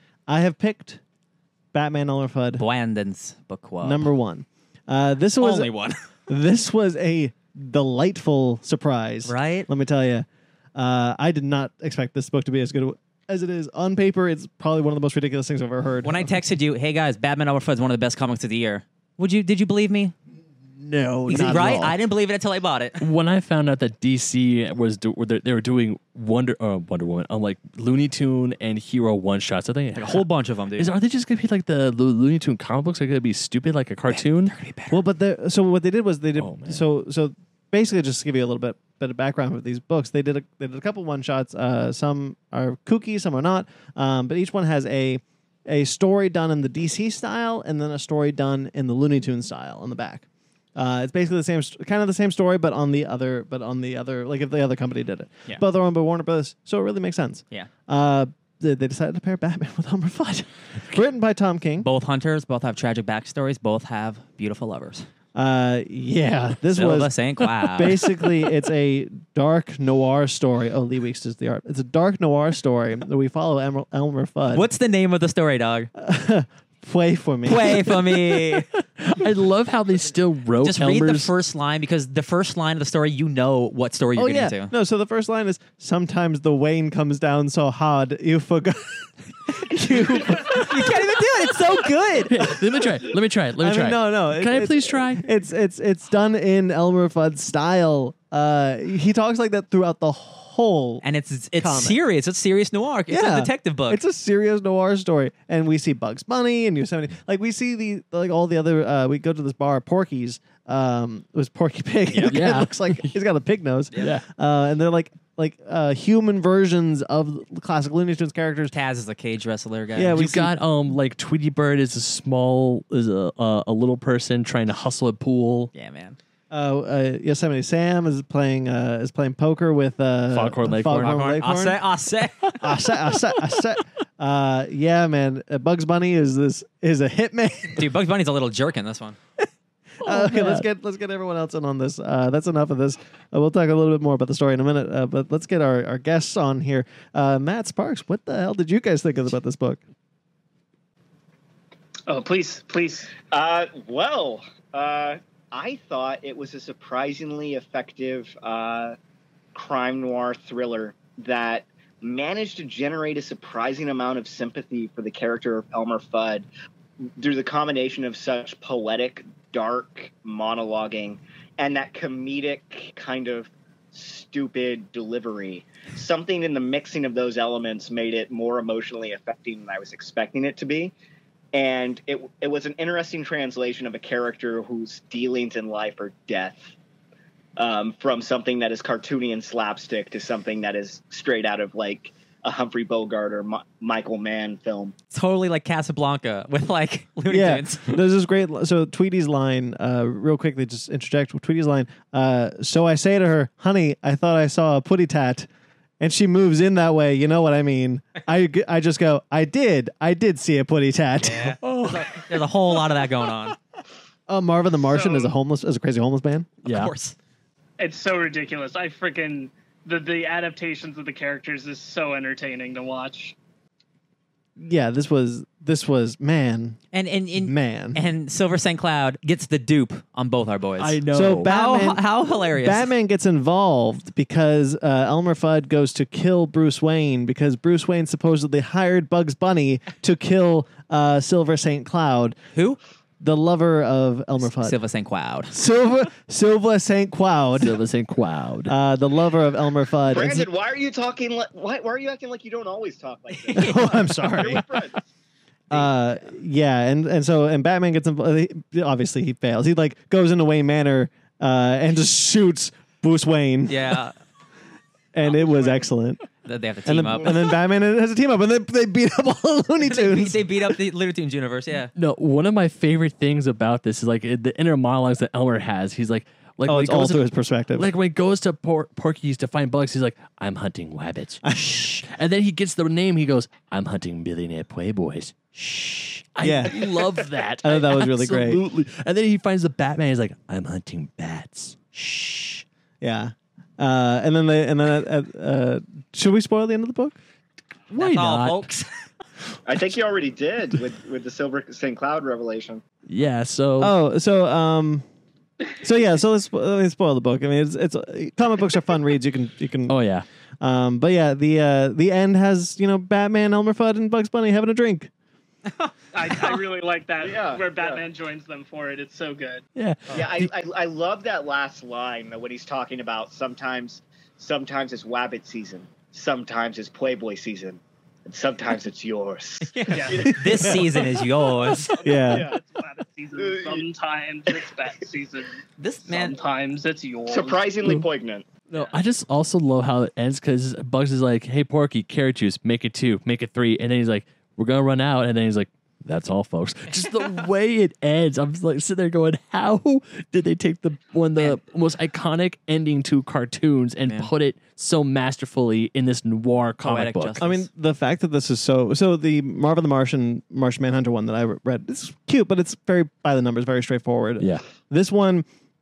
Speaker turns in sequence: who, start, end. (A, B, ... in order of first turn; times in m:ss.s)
0:00.3-0:01.0 A
0:01.7-0:02.6 A
0:02.6-0:04.1 B
0:03.8-0:05.7 A
0:05.4-0:06.0 B
0:06.3-0:16.4 A
0:09.2-0:09.7 B
0:16.0-0:20.1 B
0:20.7-0:22.0 A
0:21.2-0:23.0 B
0:23.0-0:34.5 C
0:29.9-0:30.9 B
0:34.1-0:35.0 B
0:34.9-0:50.2 A
0:36.4-0:36.8 C
0:50.8-1:01.9 A
1:01.8-1:05.0 B
1:05.3-1:07.1 A
1:06.7-1:08.0 B
1:07.7-1:14.7 A
1:14.5-1:15.9 B
1:16.0-1:17.8 A
1:17.4-1:18.6 B
1:19.0-1:21.3 C
1:20.6-1:24.7 B
1:24.1-1:30.6 A
1:30.0-1:32.3 B
1:32.3-1:35.3 C
1:33.6-1:41.0 A
1:41.0-1:44.0 B
1:41.6-1:42.0 A
1:43.1-1:58.7 A
1:52.1-1:52.4 B
1:52.3-1:53.1 C
1:54.0-1:54.2 C
1:58.7-2:00.2 B
1:59.9-2:00.5 A
2:00.1-2:05.7 C
2:05.7-2:06.2 B
2:06.5-2:11.8 A
2:10.3-2:11.3 C
2:11.0-2:12.5 B
2:12.6-2:17.9 A
2:17.7-2:19.2 B
2:20.0-2:20.6 C
2:20.0-2:29.8 A
2:32.1-2:33.1 D
2:33.2-2:39.0 E
2:39.5-2:46.5 E
2:47.2-3:00.9 E
3:01.5-3:06.7 E
3:07.6-3:14.9 E
3:15.1-3:18.0 B
3:17.3-3:25.5 A
3:26.0-3:31.6 A
3:31.2-3:33.5 B
3:31.6-3:32.4 C
3:34.3-3:36.5 A
3:34.9-3:35.2 D
3:36.6-3:36.9 C
3:36.6-3:37.2 B
3:37.8-3:43.4 D
3:44.6-3:46.8 A
3:46.9-3:52.9 B
3:47.4-3:48.0 A
3:50.8-3:51.5 C
3:51.1-4:02.4 A
4:02.5-4:02.8 B
4:03.2-4:04.8 A
4:04.4-4:05.5 B
4:05.5-4:07.8 A
4:07.6-4:08.7 C
4:08.6-4:10.5 A
4:10.1-4:15.1 E
4:13.3-4:14.6 B
4:13.5-4:14.6 A
4:15.7-4:23.9 A
4:23.7-4:24.1 B
4:25.1-4:26.2 A
4:25.2-4:25.8 B
4:26.4-4:27.4 B
4:26.8-4:30.7 A
4:29.8-4:31.9 B
4:31.9-4:41.4 C
4:36.6-4:37.9 A
4:41.4-4:42.0 A
4:42.0-4:52.4 C
4:45.6-4:46.2 B
4:46.4-4:46.8 A
4:47.6-4:48.6 A
4:52.0-4:52.6 B
4:53.0-4:57.2 A
4:57.9-4:58.7 C
4:58.0-4:58.9 B
4:59.6-5:02.8 E
5:03.1-5:03.9 C
5:03.8-5:05.0 A
5:05.7-5:10.0 A
5:09.9-5:10.2 C
5:10.6-5:15.1 A
5:15.8-5:16.6 B
5:16.1-5:19.6 D
5:17.2-5:18.0 E
5:19.8-5:20.5 C
5:20.1-5:30.8 E
5:29.6-5:31.9 B
5:29.9-5:30.2 D
5:30.2-5:31.0 A
5:31.9-5:35.5 D
5:32.0-5:32.5 A
5:32.2-5:32.6 E
5:33.3-5:33.8 E
5:35.8-5:36.4 B
5:36.1-5:37.8 D
5:37.2-5:38.5 E
5:38.7-5:57.4 C
5:56.8-5:57.7 B
5:57.4-6:05.4 A